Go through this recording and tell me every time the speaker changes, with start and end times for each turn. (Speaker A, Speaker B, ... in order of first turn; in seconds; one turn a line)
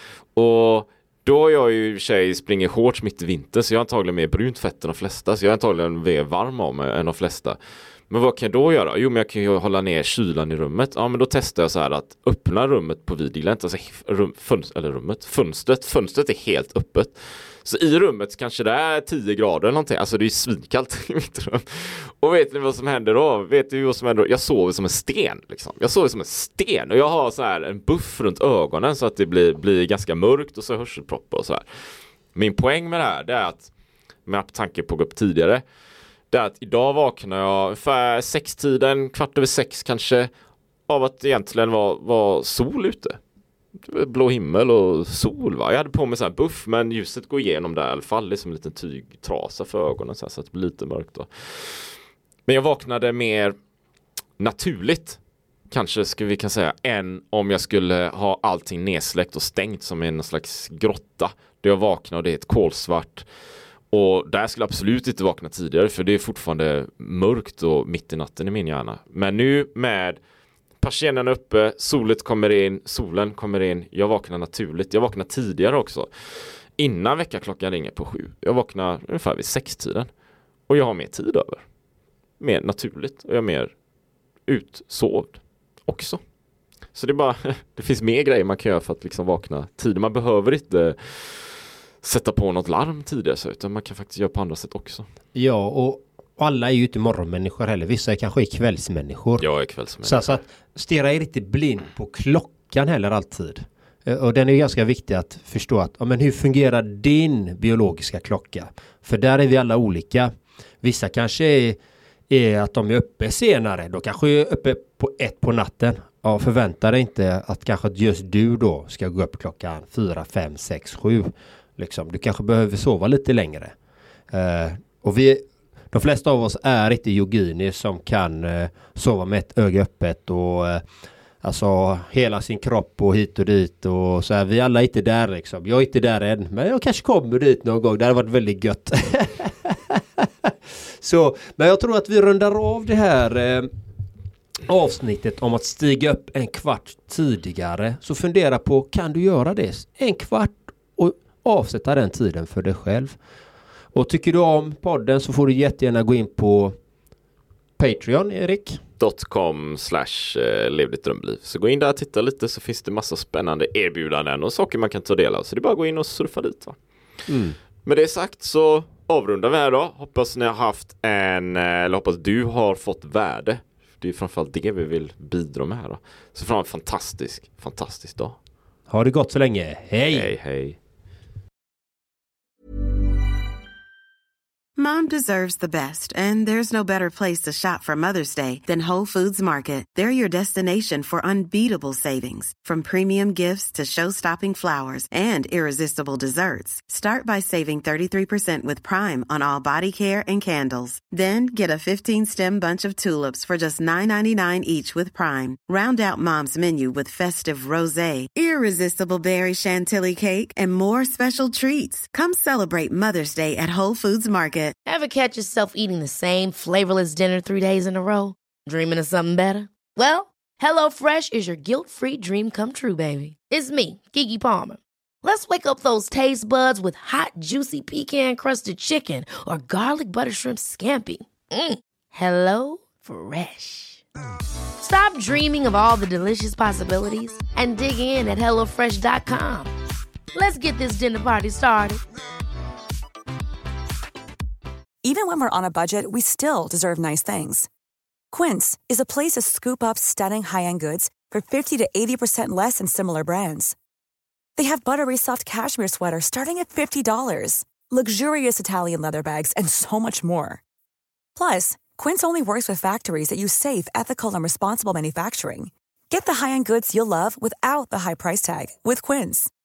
Speaker A: 0.3-7.6
Speaker A: 8.1-31.6
Speaker A: 32.3-33.7
Speaker A: 34.2-35.6
Speaker A: 36.3-40.3
Speaker A: 40.9-43.2
Speaker A: 43.8-52.0
Speaker A: 52.5-53.5
Speaker A: 54.4-55.2
Speaker A: 55.7-63.3
Speaker A: 63.9-70.2
Speaker A: 70.8-80.1
Speaker A: 80.7-81.6
Speaker A: 82.4-83.7
Speaker A: 84.5-86.2
Speaker A: 86.9-95.1
Speaker B: 95.3-99.4
Speaker A: 99.4-100.4
Speaker B: 100.0-110.3
Speaker B: 110.8-111.8
Speaker B: 112.3-123.7
Speaker B: 124.3-130.8
Speaker B: 131.4-140.5
Speaker B: 141.0-143.7
Speaker B: 144.7-153.2
Speaker B: 153.9-156.8
Speaker B: 157.8-158.8
Speaker A: 159.0-166.8
Speaker B: 167.3-167.6
Speaker A: 167.8-178.4
Speaker B: 178.9-180.3
Speaker A: 180.0-180.8
Speaker C: 184.8-214.8
Speaker D: 214.8-234.0
Speaker D: 234.8-239.7
Speaker D: 240.3-242.0
Speaker E: 245.0-247.7
Speaker E: 248.3-253.7
Speaker E: 254.6-260.6
Speaker E: 261.4-269.5